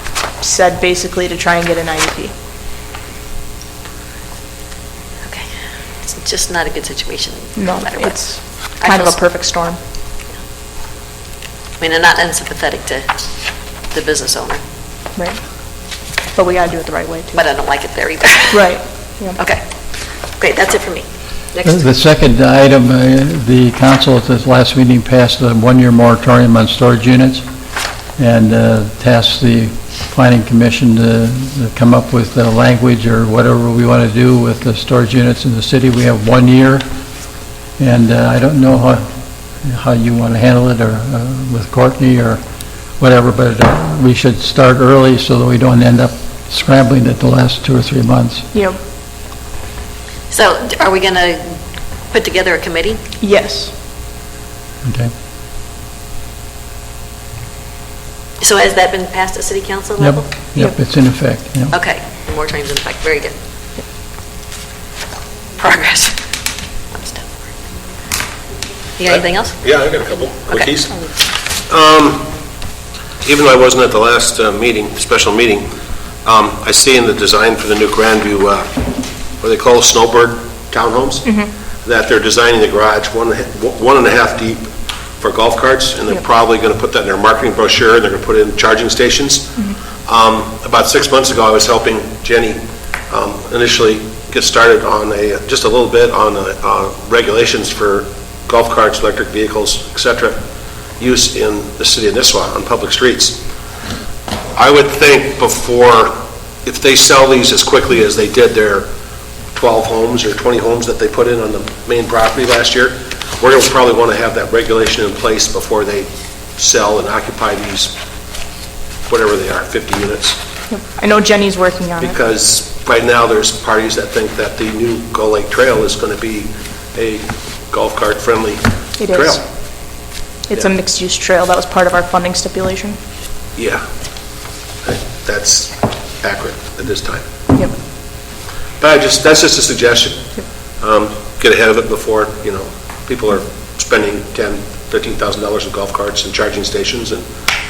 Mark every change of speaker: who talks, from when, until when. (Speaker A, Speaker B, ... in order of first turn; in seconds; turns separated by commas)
Speaker A: 0.4-2.3, Speaker B: 6.0-8.3, Speaker A: 7.5-9.8, Speaker B: 8.8-9.2, Speaker B: 11.8-13.1, Speaker B: 13.9-14.6, Speaker A: 16.3-17.4, Speaker B: 17.3-18.7, Speaker A: 18.5-19.4, Speaker B: 20.4-21.9, Speaker C: 21.6-27.4, Speaker C: 28.2-36.8, Speaker C: 37.8-39.0, Speaker C: 39.6-42.4, Speaker C: 43.0-48.4, Speaker B: 50.3-51.5, Speaker B: 52.1-53.0, Speaker A: 53.2-53.7, Speaker C: 54.8-55.1, Speaker B: 58.4-60.3, Speaker C: 60.0-61.7, Speaker B: 61.7-63.3, Speaker B: 65.6-66.2, Speaker B: 66.9-67.3, Speaker B: 69.0-69.6, Speaker D: 69.0-71.0, Speaker D: 71.7-72.3, Speaker D: 73.2-75.7, Speaker D: 76.2-78.7, Speaker D: 79.4-81.3, Speaker D: 81.8-84.7, Speaker D: 85.2-92.6, Speaker D: 93.1-100.4, Speaker D: 101.0-103.4, Speaker D: 104.5-106.1, Speaker D: 106.6-108.9, Speaker D: 109.5-117.9, Speaker D: 119.1-120.4, Speaker A: 120.7-122.2, Speaker D: 122.0-129.4, Speaker A: 129.0-129.4, Speaker A: 130.5-133.0, Speaker D: 133.6-133.8, Speaker D: 134.8-137.2, Speaker D: 138.8-140.3, Speaker D: 140.8-147.2